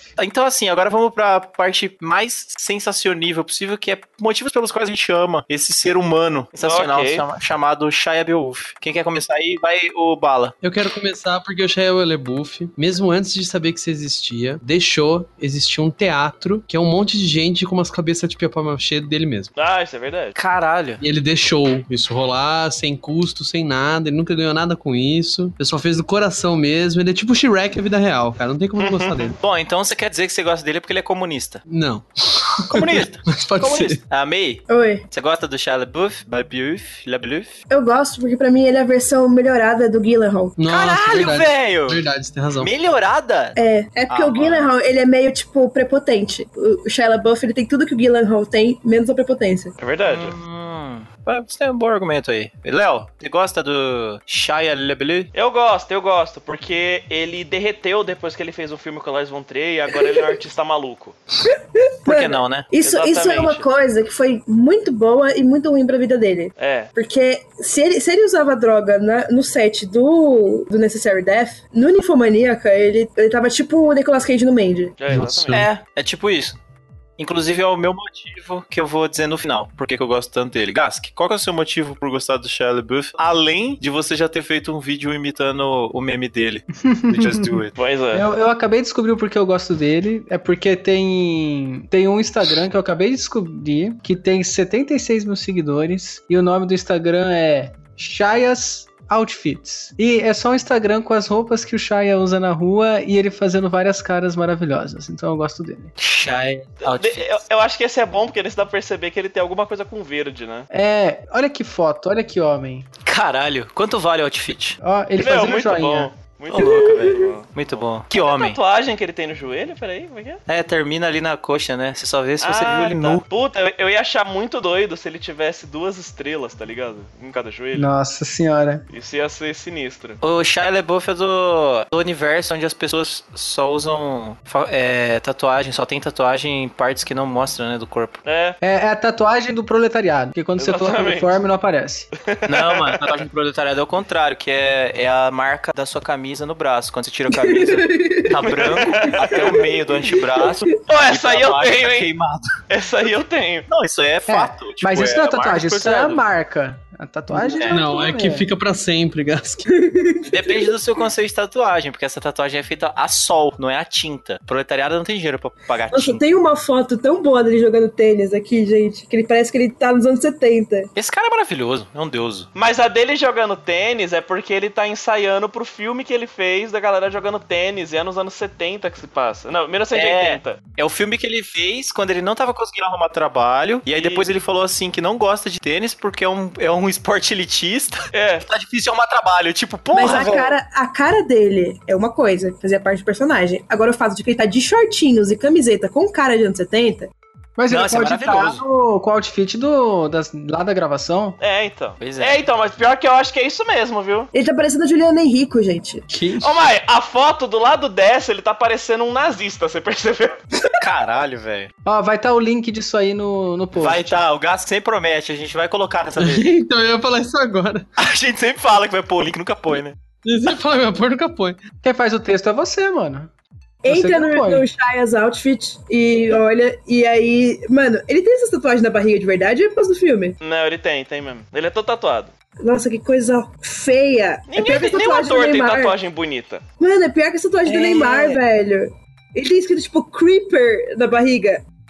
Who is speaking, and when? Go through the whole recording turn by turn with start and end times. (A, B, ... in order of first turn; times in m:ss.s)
0:00.2-0:10.6 A
0:06.6-0:07.2 B
0:10.6-0:19.5 C
0:19.6-0:20.4 B
0:20.3-0:21.0 A
0:21.0-0:29.4 C
0:28.8-0:29.3 B
0:29.4-0:31.6 A
0:31.7-0:34.0 C
0:32.7-0:37.6 A
0:34.7-0:35.0 D
0:37.7-0:40.6 D
0:40.6-0:42.7 C
0:40.7-0:42.0 A
0:42.6-0:43.6 A
0:43.6-0:49.7 D
0:44.1-0:44.7 A
0:49.8-0:50.3 B
0:50.0-0:55.3 A
0:55.3-1:01.2 B
1:01.5-1:15.0 D
1:02.0-1:02.7 A
1:02.8-1:03.7 B
1:06.6-1:06.9 B
1:15.0-1:15.6 B
1:15.1-1:15.7 C
1:15.5-1:16.6 A
1:17.2-1:27.8 A
1:26.8-1:27.6 E
1:27.8-1:28.3 B
1:28.1-1:45.9 E
1:46.0-1:47.4 A
1:46.8-1:50.7 B
1:50.7-1:52.9 E
1:53.0-1:54.8 A
1:54.8-1:56.1 E
1:55.2-2:00.4 B
1:56.5-1:58.6 A
1:56.6-1:56.9 D
2:00.5-2:03.2 A
2:02.4-2:07.9 B
2:07.7-2:08.8 E
2:08.9-2:10.2 B
2:10.2-2:18.2 A
2:18.2-2:18.6 B
2:18.6-2:22.1 E
2:20.6-2:21.4 B
2:22.2-2:23.2 B
2:22.4-2:32.6 A
2:27.3-2:28.4 D
2:28.4-2:29.5 B
2:29.1-2:29.5 D
2:30.8-2:32.1 B
2:32.7-2:33.7 B
2:33.7-2:36.2 A
2:34.3-2:38.5 E
2:37.4-2:39.7 C
2:37.5-2:37.8 A
2:39.7-2:40.7 D
2:40.2-2:46.2 A
2:45.9-2:50.9 D
2:50.9-2:52.5 A
2:52.5-3:00.6 B
2:59.9-3:10.6 A
3:03.9-3:04.3 B
3:08.1-3:08.4 B
3:09.9-3:17.1 D
3:17.6-3:21.4 E
3:17.7-3:18.6 A
3:21.4-3:24.3 B
3:22.0-3:22.4 A
3:24.3-3:26.0 D
3:26.1-3:26.5 E
3:26.4-3:30.4 B
3:30.8-3:31.7 A
3:31.8-3:34.2 E
3:33.8-3:36.5 A
3:36.2-3:37.8 C
3:38.0-3:40.0 A
3:40.2-3:41.6 C
3:41.8-3:43.3 E
3:43.8-3:50.4 D
3:43.9-3:44.7 E
3:50.4-3:52.3 B
3:52.6-3:55.9 D
3:54.5-3:56.6 B
3:56.8-4:01.6 D
3:57.7-3:58.4 B